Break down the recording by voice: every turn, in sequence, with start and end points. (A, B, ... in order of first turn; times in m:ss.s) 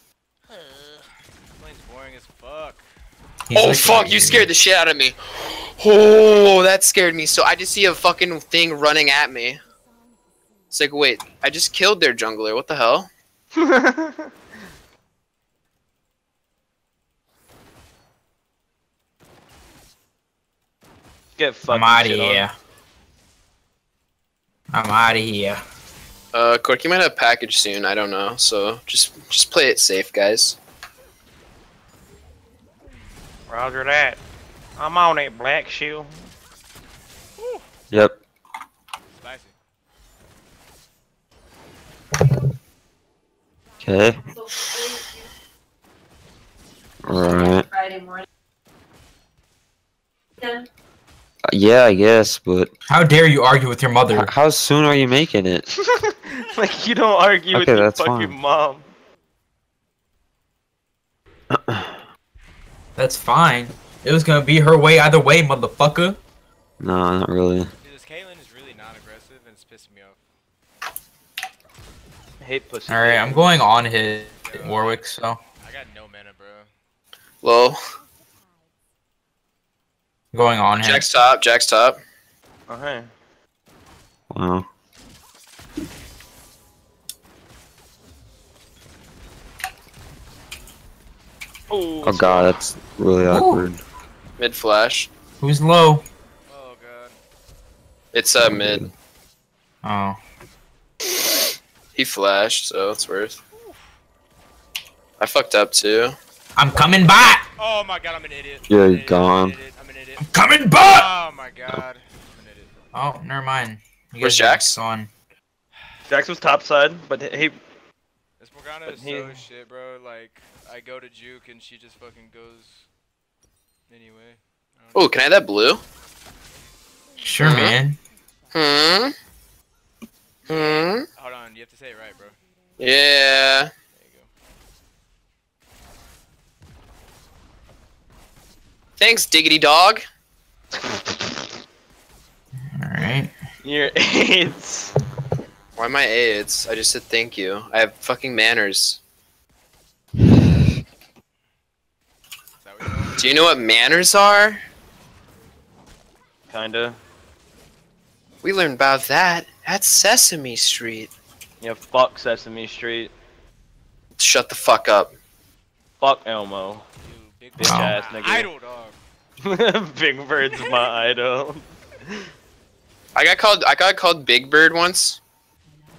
0:00.5-0:01.0 A
0:01.6-0:02.9 A
0:03.5-0:04.5 B
0:03.5-0:09.6 C
0:10.7-0:13.1 C
0:13.6-0:14.3 D
0:21.4-0:22.5 D
0:21.7-0:22.5 B
0:24.7-0:25.6 B
0:26.3-0:30.6 C
0:33.5-0:34.2 D
0:34.8-0:36.3 D
0:37.4-0:37.8 A
0:37.9-0:38.2 E
0:39.1-0:39.6 A
0:43.8-0:44.2 E
0:47.0-0:47.7 E
0:51.5-0:52.7 E
0:52.9-0:54.3 B
0:54.1-0:55.6 E
0:55.8-0:58.9 D
0:57.5-0:58.3 E
1:01.5-1:02.0 E
1:03.0-1:06.2 B
1:06.8-1:07.7 E
1:07.8-1:10.2 A
1:12.4-1:13.5 D
1:12.9-1:15.4 B
1:14.4-1:15.0 A
1:15.6-1:16.7 A
1:17.4-1:17.8 C
1:20.3-1:21.0 B
1:20.8-1:22.0 C
1:22.7-1:23.1 D
1:24.3-1:24.6 E
1:31.7-1:32.6 D
1:32.0-1:33.8 E
1:33.3-1:33.7 B
1:34.4-1:35.1 C
1:35.4-1:36.0 B
1:36.5-1:37.2 A
1:38.1-1:38.8 C
1:38.4-1:38.9 E
1:39.8-1:40.2 B
1:42.0-1:43.4 C
1:43.5-1:43.9 A
1:45.2-1:46.2 C
1:46.6-1:47.5 B
1:47.6-1:50.3 A
1:48.7-1:49.5 E
1:50.3-1:51.1 B
1:50.8-1:52.7 A
1:52.9-1:55.1 B
1:54.2-1:54.8 C
1:55.7-1:56.0 A
1:56.1-1:57.6 D
1:58.4-2:02.9 A
1:58.9-1:59.4 D
2:03.9-2:05.1 A
2:04.9-2:05.8 C
2:07.2-2:08.0 B
2:07.4-2:07.8 C
2:08.5-2:09.1 C
2:10.5-2:11.0 C
2:10.5-2:12.4 A
2:12.8-2:13.7 C
2:13.3-2:14.3 A
2:19.0-2:20.0 C
2:20.9-2:21.5 D
2:22.7-2:23.3 B
2:23.6-2:24.9 D
2:25.8-2:29.0 C
2:32.6-2:33.4 A
2:33.2-2:34.6 C
2:36.5-2:37.0 D
2:38.4-2:41.1 C
2:41.6-2:43.1 D
2:44.2-2:45.1 C
2:46.0-2:46.8 D
2:47.0-2:49.0 A
2:47.6-2:48.5 D
2:47.6-2:48.0 B
2:49.4-2:52.2 D
2:53.1-2:55.2 C